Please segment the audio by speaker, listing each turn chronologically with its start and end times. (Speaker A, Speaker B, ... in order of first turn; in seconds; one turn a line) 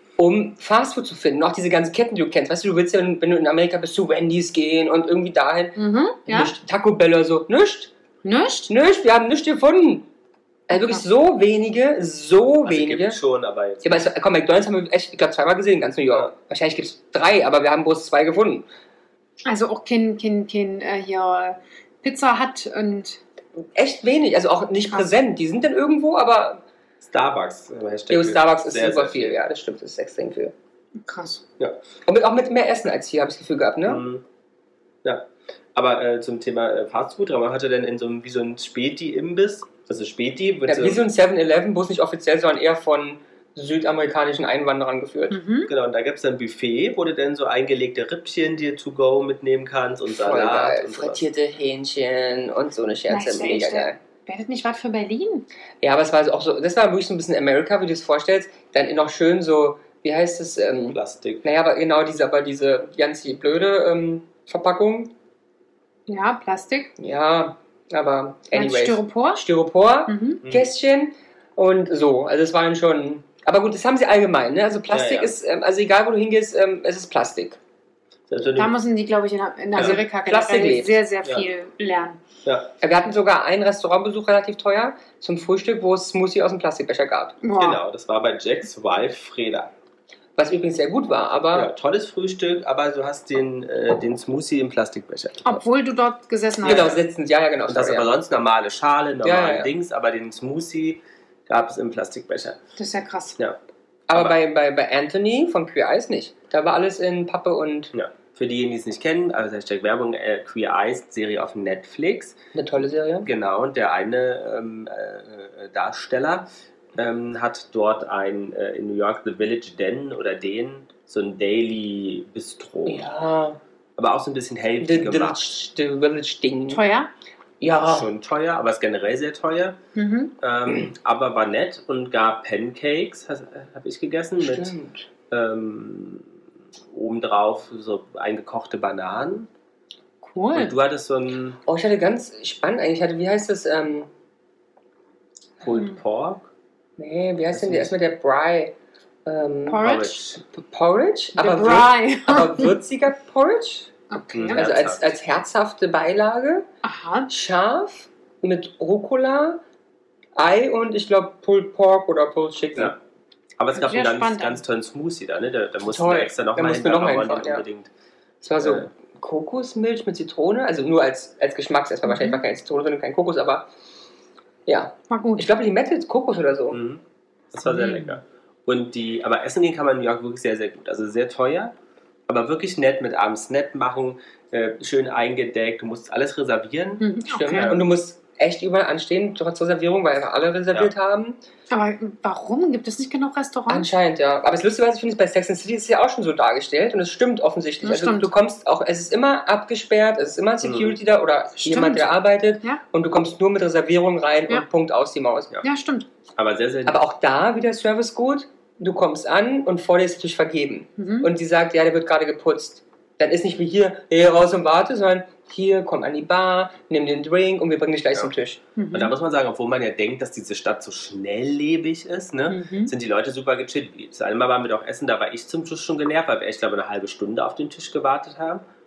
Speaker A: 0.2-7.9
Speaker B: 5.8-6.5
Speaker B: 8.2-8.7
Speaker A: 8.7-10.1
Speaker A: 10.7-13.2
Speaker B: 10.7-11.0
Speaker C: 12.6-14.0
Speaker A: 13.8-18.6
Speaker B: 19.4-23.2
Speaker A: 23.7-26.6
Speaker C: 27.0-29.3
Speaker A: 28.1-30.5
Speaker B: 31.0-31.4
Speaker A: 32.1-34.0
Speaker C: 33.9-34.2
Speaker C: 35.0-41.0
Speaker A: 40.6-45.4
Speaker B: 45.3-45.7
Speaker C: 45.7-51.2
Speaker A: 50.1-54.0
Speaker B: 53.1-55.5
Speaker A: 55.8-65.1
Speaker C: 60.9-61.4
Speaker B: 66.1-66.9
Speaker A: 67.0-77.6
Speaker B: 68.5-69.4
Speaker B: 70.1-70.4
Speaker C: 74.9-75.3
Speaker C: 78.3-78.7
Speaker B: 78.6-82.2
Speaker A: 79.8-81.0
Speaker C: 82.4-82.7
Speaker A: 82.8-87.4
Speaker B: 87.4-87.8
Speaker C: 87.6-89.7
Speaker A: 90.4-91.7
Speaker C: 91.5-95.6
Speaker B: 95.4-96.9
Speaker A: 96.6-98.1
Speaker C: 96.6-97.0
Speaker C: 97.7-102.6
Speaker A: 99.2-99.7
Speaker B: 102.8-103.4
Speaker A: 104.1-107.9
Speaker C: 107.9-112.4
Speaker A: 112.5-113.3
Speaker C: 113.2-123.1
Speaker A: 122.8-123.6
Speaker C: 124.0-125.4
Speaker A: 124.8-126.8
Speaker B: 126.7-127.1
Speaker A: 127.6-128.1
Speaker C: 127.8-129.8
Speaker B: 129.9-130.3
Speaker C: 130.4-134.7
Speaker A: 134.4-135.1
Speaker C: 135.3-136.3
Speaker C: 136.9-139.5
Speaker B: 140.2-140.8
Speaker C: 140.5-141.6
Speaker A: 141.7-144.1
Speaker C: 145.6-146.4
Speaker A: 147.0-148.7
Speaker C: 147.5-147.9
Speaker A: 149.2-153.9
Speaker B: 149.7-150.2
Speaker C: 149.8-150.4
Speaker B: 151.3-152.7
Speaker B: 154.1-154.7
Speaker C: 154.3-155.1
Speaker A: 154.5-156.7
Speaker B: 156.8-157.3
Speaker A: 157.3-159.6
Speaker A: 160.3-162.9
Speaker C: 163.6-167.9
Speaker B: 163.7-164.6
Speaker A: 165.9-167.6
Speaker A: 168.4-173.7
Speaker C: 168.6-168.9
Speaker B: 172.1-172.4
Speaker A: 174.7-176.8
Speaker B: 175.1-175.5
Speaker C: 176.7-181.7
Speaker C: 182.3-187.9
Speaker B: 187.0-187.7
Speaker A: 187.3-191.4
Speaker B: 191.7-193.9
Speaker A: 193.7-205.5
Speaker B: 197.8-198.3
Speaker C: 200.6-201.0
Speaker B: 201.6-202.8
Speaker B: 205.6-206.1
Speaker C: 206.3-207.0
Speaker A: 206.8-218.6
Speaker B: 211.0-211.3
Speaker B: 218.8-219.1
Speaker C: 218.9-228.6
Speaker B: 222.5-222.9